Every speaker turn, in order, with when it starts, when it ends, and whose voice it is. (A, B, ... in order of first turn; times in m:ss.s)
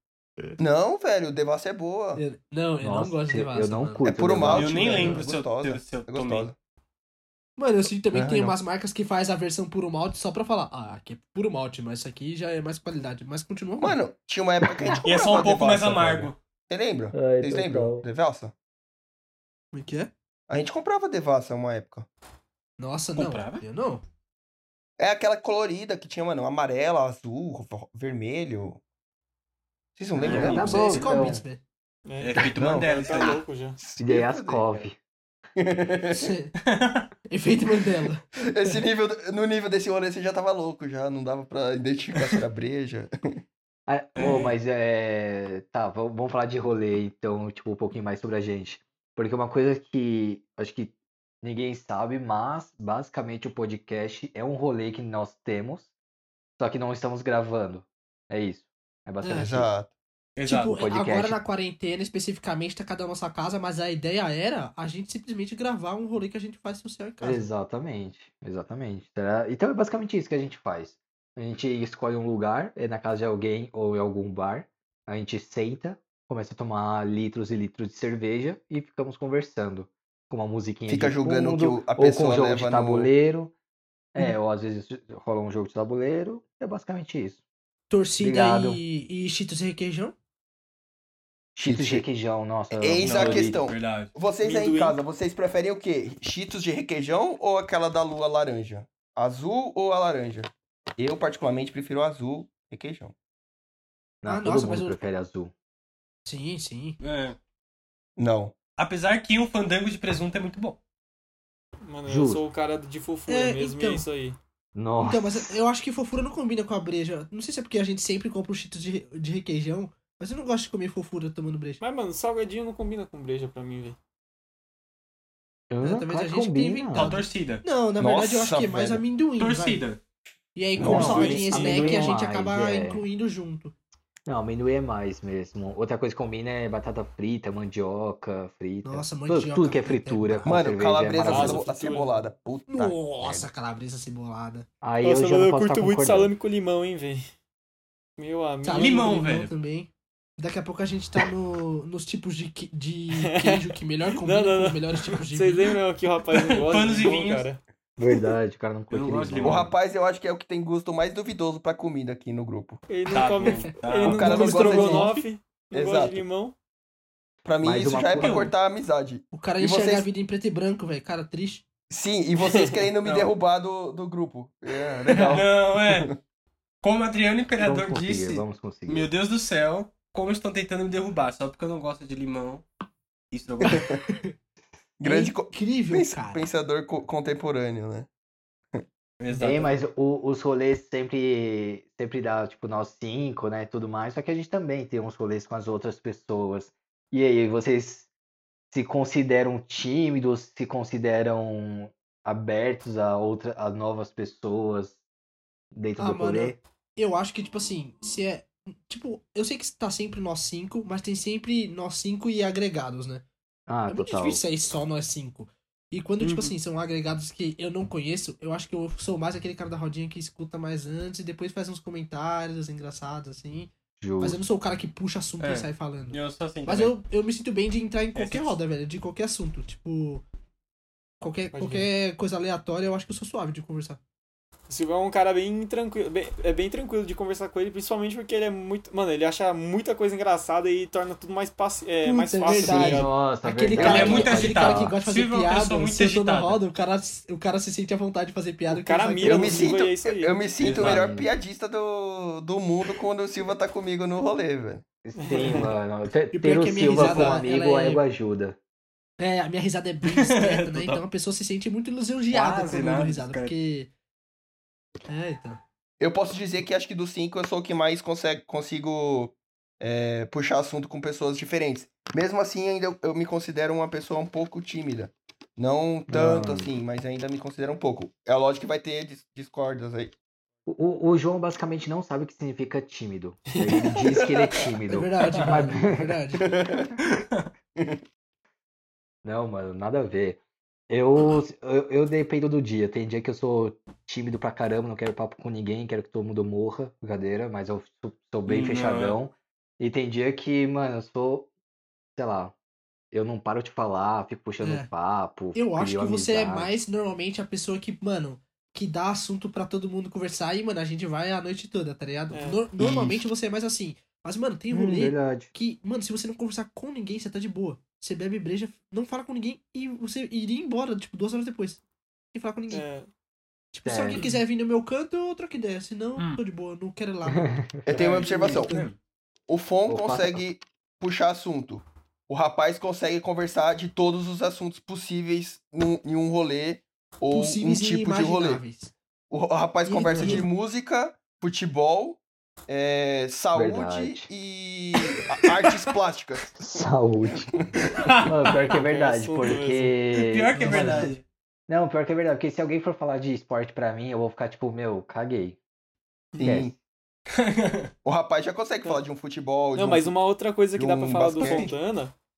0:00.6-0:02.2 A
0:02.1-0:04.1 B
0:02.8-0:05.2 C
0:04.0-0:06.6 A
0:04.4-0:06.5 D
0:07.6-0:14.0 B
0:08.1-0:08.5 A
0:13.8-0:18.5 A
0:15.0-0:16.4 D
0:17.1-0:18.0 C
0:19.7-0:20.1 B
0:20.5-0:22.1 A
0:22.8-0:24.0 B
0:23.2-0:23.6 D
0:25.0-0:28.8 A
0:30.0-0:31.2 A
0:30.2-0:31.0 D
0:30.2-0:31.4 C
0:30.4-0:31.6 B
0:32.0-0:33.8 E
0:32.2-0:33.4 D
0:32.6-0:34.7 A
0:34.0-0:35.0 C
0:35.6-0:36.3 A
0:36.1-0:36.5 B
0:36.7-0:37.1 D
0:37.3-0:38.8 B
0:38.4-0:43.1 A
0:43.9-0:55.9 C
0:44.2-0:44.5 D
0:56.6-0:59.7 C
0:59.2-0:59.5 B
0:59.4-0:59.9 A
1:00.4-1:00.8 D
1:00.4-1:07.5 B
1:00.7-1:01.4 C
1:07.2-1:23.5 C
1:20.9-1:23.1 A
1:24.1-1:27.4 C
1:27.9-1:30.1 B
1:28.2-1:28.8 C
1:31.5-1:33.7 C
1:31.6-1:32.0 A
1:32.7-1:43.1 A
1:33.0-1:34.1 D
1:34.4-1:35.0 E
1:44.2-1:45.5 C
1:44.2-1:45.0 B
1:46.2-1:47.0 B
1:47.0-1:47.4 D
1:48.2-1:48.6 A
1:48.8-1:50.8 D
1:51.8-1:54.4 E
1:52.1-1:52.4 C
1:53.3-1:54.0 B
1:54.7-1:55.6 C
1:55.0-2:01.8 B
2:01.8-2:04.0 E
2:05.7-2:07.2 C
2:05.8-2:09.8 B
2:06.9-2:07.6 D
2:08.0-2:09.0 A
2:09.4-2:10.0 D
2:10.5-2:13.7 B
2:10.8-2:11.4 A
2:10.8-2:13.0 C
2:10.9-2:11.5 D
2:11.2-2:12.1 E
2:14.2-2:21.6 C
2:18.8-2:20.6 B
2:20.4-2:23.5 A
2:21.2-2:22.2 E
2:22.7-2:24.6 B
2:24.8-2:26.3 C
2:25.0-2:27.2 E
2:28.2-2:29.1 E
2:28.6-2:35.7 B
2:28.7-2:29.5 D
2:33.2-2:33.6 E
2:34.2-2:37.6 E
2:36.3-2:37.5 D
2:38.0-2:39.7 C
2:38.9-2:39.7 D
2:39.4-2:42.8 A
2:42.9-2:46.5 E
2:43.1-2:44.6 D
2:43.4-2:45.3 B
2:44.0-2:45.1 A
2:45.7-2:46.2 A
2:47.4-2:50.0 A
2:47.6-2:48.5 C
2:47.9-2:48.5 D
2:49.3-2:51.6 B
2:51.9-2:56.1 A
2:53.0-2:53.3 D
2:55.2-2:56.1 D
2:56.8-3:02.6 D
2:57.6-2:59.1 C
3:03.3-3:03.8 D
3:03.7-3:04.3 B
3:03.7-3:04.0 A
3:05.0-3:08.1 A
3:05.0-3:06.4 B
3:09.2-3:09.7 D
3:09.3-3:18.1 C
3:18.7-3:25.0 C
3:25.7-3:26.6 C
3:26.0-3:33.2 B
3:33.7-3:34.4 C
3:33.9-3:50.2 B
3:36.2-3:36.5 D
3:44.0-3:44.4 C
3:45.4-3:47.0 D
3:48.2-3:48.5 D
3:51.2-3:54.0 B
3:51.5-3:51.9 E
3:54.7-4:03.1 E
4:02.0-4:09.7 B
4:02.5-4:04.9 C
4:03.8-4:06.6 D
4:08.7-4:10.4 E
4:09.2-4:14.8 A
4:10.6-4:11.0 D
4:10.7-4:11.3 C
4:15.0-4:18.6 C
4:15.2-4:15.7 E
4:16.3-4:18.0 B
4:19.2-4:23.9 B
4:20.0-4:21.0 D
4:22.3-4:23.5 D
4:25.1-4:25.6 B
4:26.0-4:40.1 A
4:36.1-4:36.7 C
4:40.6-4:46.1 C
4:43.5-4:43.9 E
4:44.9-4:46.5 B
4:46.4-4:46.9 A
4:47.8-4:48.0 A
4:49.2-5:01.5 C
4:58.5-4:59.2 D
5:02.2-5:02.5 C
5:03.1-5:06.7 C
5:04.6-5:04.9 B
5:05.5-5:21.8 B
5:12.3-5:12.6 E
5:14.7-5:15.5 C
5:22.3-5:22.8 B
5:22.7-5:23.1 E
5:23.7-5:28.9 B
5:23.8-5:24.2 C
5:27.3-5:27.8 C
5:27.8-5:28.7 A
5:27.9-5:29.0 D
5:29.5-5:38.6 A
5:29.9-5:30.4 C
5:37.3-5:38.9 B
5:39.3-5:46.5 A
5:39.8-5:40.5 B
5:43.5-5:44.3 C
5:46.6-5:47.6 C
5:48.0-5:48.7 D
5:48.2-5:51.1 C
5:48.7-5:50.0 E
5:50.1-5:51.2 D
5:50.6-5:50.9 E
5:51.7-5:55.6 C
5:56.3-5:56.6 E
5:56.4-5:56.7 A
5:56.4-5:56.7 C
5:57.3-5:57.9 D
5:58.0-6:00.1 A
5:59.7-6:02.1 E
6:00.7-6:01.7 A
6:01.4-6:01.7 D